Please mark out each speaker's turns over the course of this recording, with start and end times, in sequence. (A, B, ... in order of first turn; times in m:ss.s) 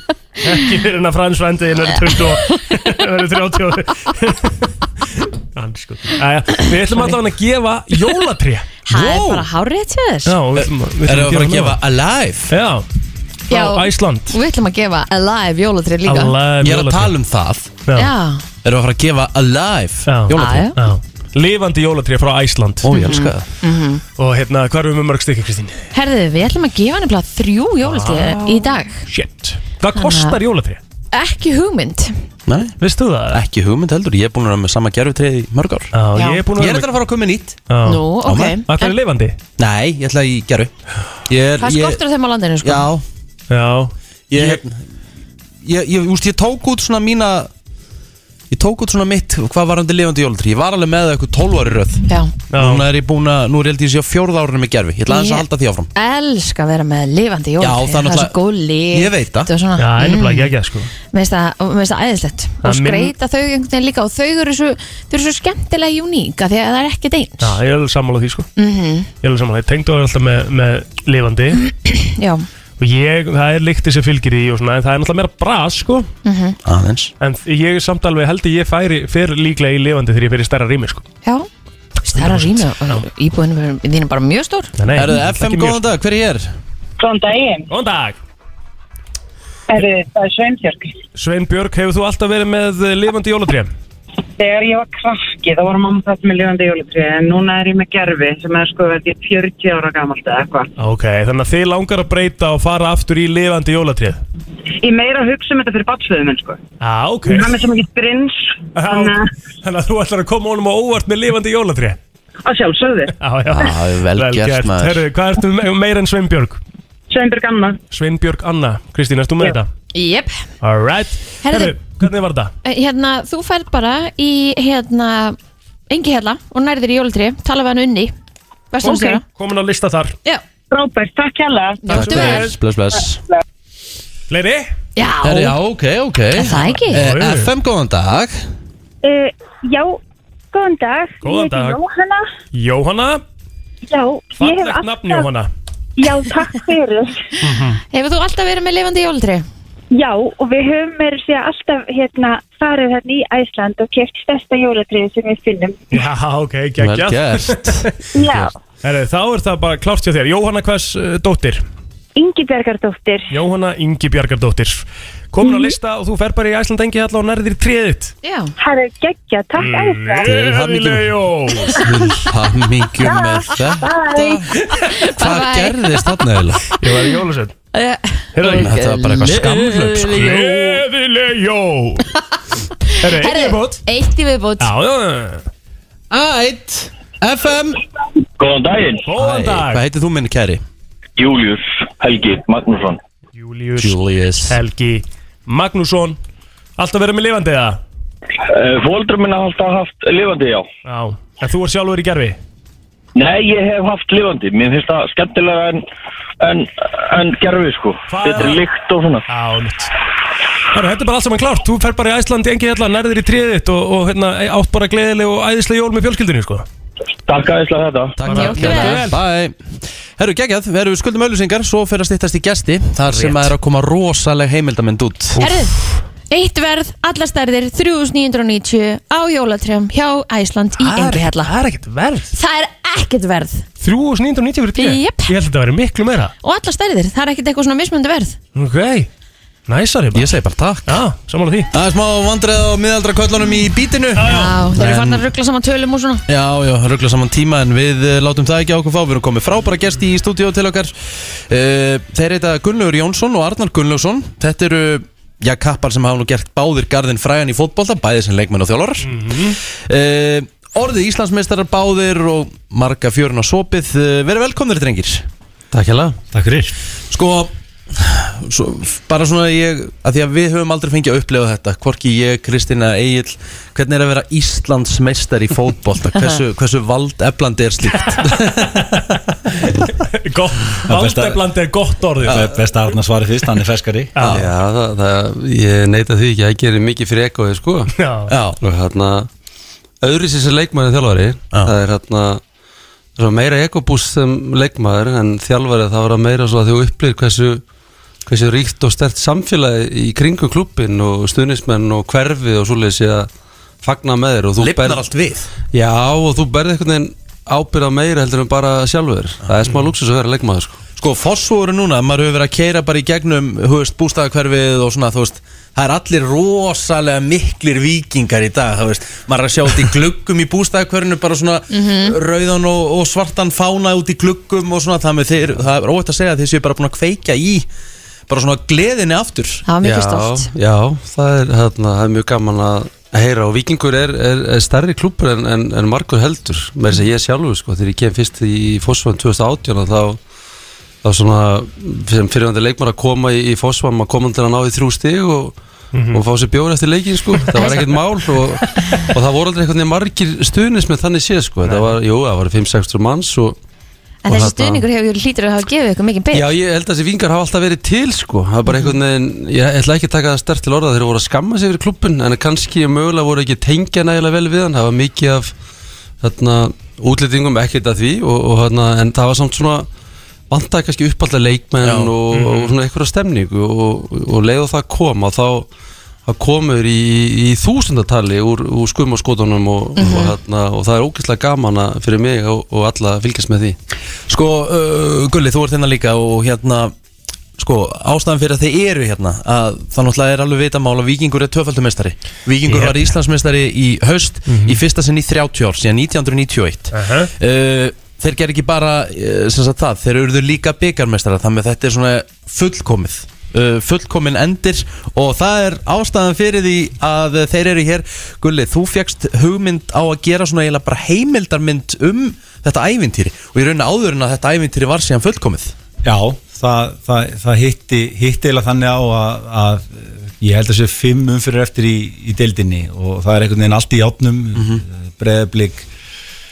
0:00.4-0:04.7 A
0:02.0-0:02.7 B
0:05.5-0:08.7 A
0:06.6-0:07.2 B
0:08.9-0:10.4 B
0:08.9-0:09.4 C
0:10.3-0:11.8 A
0:10.6-0:12.5 C
0:12.5-0:12.8 A
0:13.5-0:14.3 A
0:13.5-0:16.3 B
0:16.0-0:17.1 A
0:16.6-0:17.7 C
0:17.9-0:18.4 B
0:18.6-0:20.7 C
0:20.1-0:22.9 A
0:20.3-0:20.8 B
0:22.8-0:23.4 C
0:22.9-0:24.0 B
0:24.2-0:25.9 A
0:25.9-0:29.0 B
0:27.8-0:30.8 A
0:29.9-0:30.4 B
0:31.1-0:32.1 B
0:32.5-0:32.8 C
0:32.8-0:33.4 A
0:33.3-0:35.9 C
0:35.9-0:36.9 A
0:36.2-0:36.4 B
0:36.5-0:37.6 C
0:37.7-0:39.4 A
0:37.8-0:38.9 B
0:38.2-0:38.6 C
0:39.6-0:40.7 C
0:41.2-0:42.0 C
0:41.6-0:42.9 B
0:42.6-0:43.0 C
0:43.5-0:44.6 A
0:44.3-0:44.8 C
0:45.6-0:47.5 C
0:48.5-0:55.9 C
0:52.1-0:52.3 B
0:52.5-0:52.9 A
0:55.1-1:00.5 B
0:57.6-0:58.4 C
0:58.9-0:59.5 C
0:59.8-1:00.9 A
1:01.1-1:07.5 B
1:02.6-1:03.1 A
1:07.4-1:08.5 A
1:08.6-1:09.1 B
1:09.2-1:11.6 A
1:11.8-1:12.4 B
1:12.8-1:16.1 A
1:16.2-1:16.6 B
1:16.6-1:17.1 C
1:17.2-1:21.0 A
1:22.0-1:24.7 B
1:22.1-1:23.0 A
1:24.8-1:25.8 A
1:24.9-1:26.5 C
1:27.0-1:27.7 D
1:27.7-1:28.2 A
1:29.7-1:30.9 D
1:31.2-1:33.7 A
1:34.4-1:40.7 D
1:40.8-1:44.2 A
1:44.8-1:46.6 D
1:46.8-1:47.5 A
1:47.2-1:49.3 D
1:48.8-1:52.0 A
1:52.4-1:53.1 D
1:53.2-1:56.6 A
1:53.5-1:55.0 C
1:57.1-1:57.8 D
1:57.9-1:59.7 A
1:59.9-2:00.3 B
2:00.6-2:02.5 A
2:01.4-2:01.8 B
2:02.6-2:05.4 B
2:05.9-2:08.1 B
2:08.7-2:09.2 B
2:08.8-2:10.2 A
2:10.7-2:11.8 D
2:11.8-2:12.5 B
2:11.9-2:13.2 C
2:11.9-2:12.5 A
2:14.3-2:14.7 A
2:15.0-2:15.6 B
2:15.2-2:18.4 C
2:16.3-2:17.0 B
2:16.7-2:17.5 A
2:19.0-2:20.0 E
2:20.5-2:22.3 E
2:21.2-2:21.8 A
2:22.5-2:23.2 A
2:23.9-2:25.3 E
2:24.4-2:25.5 A
2:26.0-2:27.2 E
2:27.4-2:27.8 A
2:27.9-2:29.4 B
2:29.9-2:35.9 E
2:35.9-2:37.9 A
2:36.8-2:38.5 C
2:38.2-2:38.5 E
2:38.8-2:41.6 A
2:42.2-2:43.3 E
2:43.3-2:48.1 A
2:48.2-2:48.5 B
2:48.6-2:50.3 E
2:49.6-2:51.8 A
2:50.2-2:51.1 C
2:51.7-2:54.5 C
2:53.0-2:54.4 E
2:54.9-2:55.9 B
2:55.0-2:56.8 C
2:56.8-2:57.5 A
2:57.7-3:00.4 B
2:58.4-3:02.1 A
2:58.4-3:00.8 C
3:02.9-3:04.7 B
3:03.0-3:03.8 A
3:04.6-3:05.4 A
3:06.1-3:07.8 C
3:08.4-3:09.0 F
3:09.1-3:09.8 A
3:09.1-3:10.6 C
3:11.2-3:13.0 F
3:13.4-3:16.2 A
3:13.8-3:14.6 C
3:16.8-3:17.8 A
3:18.5-3:20.6 F
3:20.9-3:22.4 A
3:23.2-3:25.8 F
3:26.4-3:29.2 F
3:28.1-3:28.6 A
3:29.3-3:29.9 A
3:30.7-3:36.6 A
3:37.3-3:38.1 F
3:38.2-3:39.6 C
3:38.2-3:39.2 A
3:38.3-3:39.0 B
3:40.2-3:45.4 C
3:43.1-3:43.5 A
3:45.3-3:45.8 A
3:45.4-3:45.8 B
3:46.3-3:51.5 B
3:50.8-3:52.3 A
3:52.3-3:53.6 B
3:53.8-3:56.3 A
3:54.8-3:55.3 B
3:56.4-3:58.4 B
3:58.5-3:59.1 A
3:59.7-4:00.3 A
4:00.1-4:01.0 C
4:00.9-4:01.7 A
4:01.7-4:05.2 C
4:04.2-4:04.6 A
4:04.2-4:06.2 B
4:06.3-4:25.2 C
4:19.1-4:19.6 A
4:25.7-4:26.2 G
4:26.3-4:26.7 H
4:27.1-4:38.6 C
4:39.5-4:42.5 A
4:40.9-4:41.4 H
4:42.2-4:44.1 H
4:44.1-4:44.5 A
4:44.2-4:44.5 C
4:44.3-4:47.9 G
4:47.9-4:48.3 A
4:48.3-4:48.6 C
4:48.6-4:49.3 G
4:50.0-4:52.4 G
4:53.2-4:57.6 G
4:58.2-5:03.3 G
5:03.8-5:05.0 G
5:04.6-5:05.5 C
5:05.7-5:10.8 G
5:11.0-5:27.6 C
5:21.7-5:22.2 B
5:28.3-5:29.6 C
5:29.6-5:30.5 B
5:29.8-5:40.2 G
5:41.0-5:45.6 G
5:45.9-5:46.2 A
5:46.1-5:53.6 G
5:47.5-5:47.9 B
5:51.6-5:52.0 A
5:54.2-5:56.5 B
5:54.3-5:54.8 G
5:56.3-6:05.5 G
5:58.7-5:58.9 B
6:06.2-6:09.9 G
6:10.5-6:15.7 G
6:11.8-6:12.1 C
6:12.3-6:12.7 A
6:16.2-6:23.8 G
6:20.0-6:20.3 C
6:24.3-6:26.9 C
6:27.6-6:55.7 C
6:32.6-6:33.1 A
6:34.5-6:34.8 A
6:36.9-6:37.3 A
6:56.0-7:05.9 H
7:04.5-7:04.8 C